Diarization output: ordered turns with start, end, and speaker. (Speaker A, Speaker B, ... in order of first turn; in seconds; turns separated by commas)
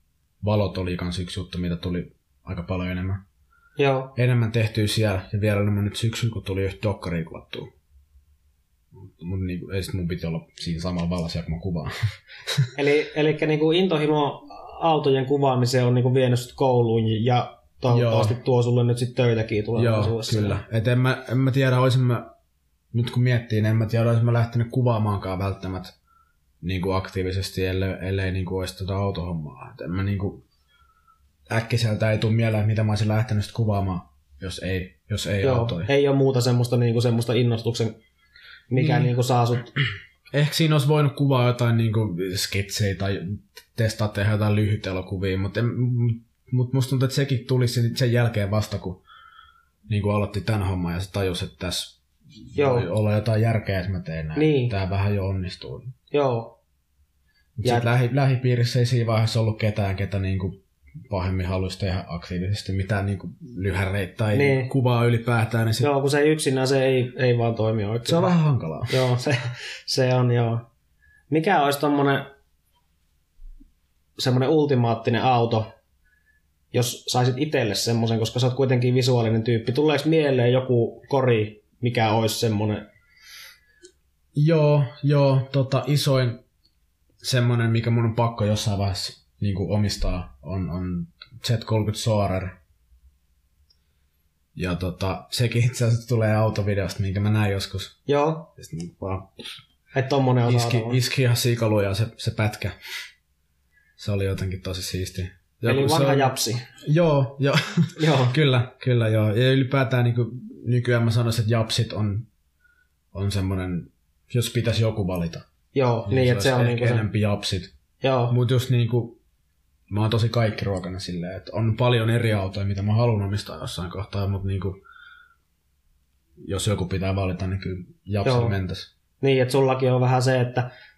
Speaker A: 0.4-3.2, Speaker B: 3.8-4.1, Speaker A: 4.1-7.7, Speaker A: 8.9-11.9, Speaker B: 12.7-20.6, Speaker A: 17.9-18.3, Speaker A: 19.8-22.3, Speaker A: 22.9-25.9, Speaker A: 26.6-30.4, Speaker A: 31.5-35.9, Speaker B: 35.4-38.0, Speaker B: 38.7-39.7, Speaker A: 38.7-39.1, Speaker A: 40.3-49.0, Speaker A: 49.9-52.0, Speaker A: 52.5-55.9, Speaker B: 52.5-52.9, Speaker B: 54.4-54.7, Speaker B: 56.1-56.5, Speaker A: 57.6-60.6, Speaker A: 61.1-65.9, Speaker B: 64.3-64.7, Speaker B: 65.8-68.3, Speaker A: 68.0-69.0, Speaker B: 68.9-70.6, Speaker B: 71.3-72.3, Speaker B: 74.2-75.7, Speaker B: 76.7-82.8, Speaker A: 84.3-86.4, Speaker A: 87.2-92.5, Speaker A: 94.5-98.0, Speaker B: 98.1-98.5, Speaker A: 98.5-99.3, Speaker B: 99.9-101.0, Speaker A: 100.4-102.7, Speaker A: 104.0-112.3, Speaker B: 105.7-106.7, Speaker B: 108.0-108.3, Speaker A: 113.1-115.4, Speaker B: 115.7-117.1, Speaker A: 116.0-117.7, Speaker B: 118.0-118.3, Speaker A: 118.3-119.2, Speaker A: 119.9-124.8, Speaker A: 126.4-128.9, Speaker B: 128.2-128.6, Speaker B: 129.2-130.7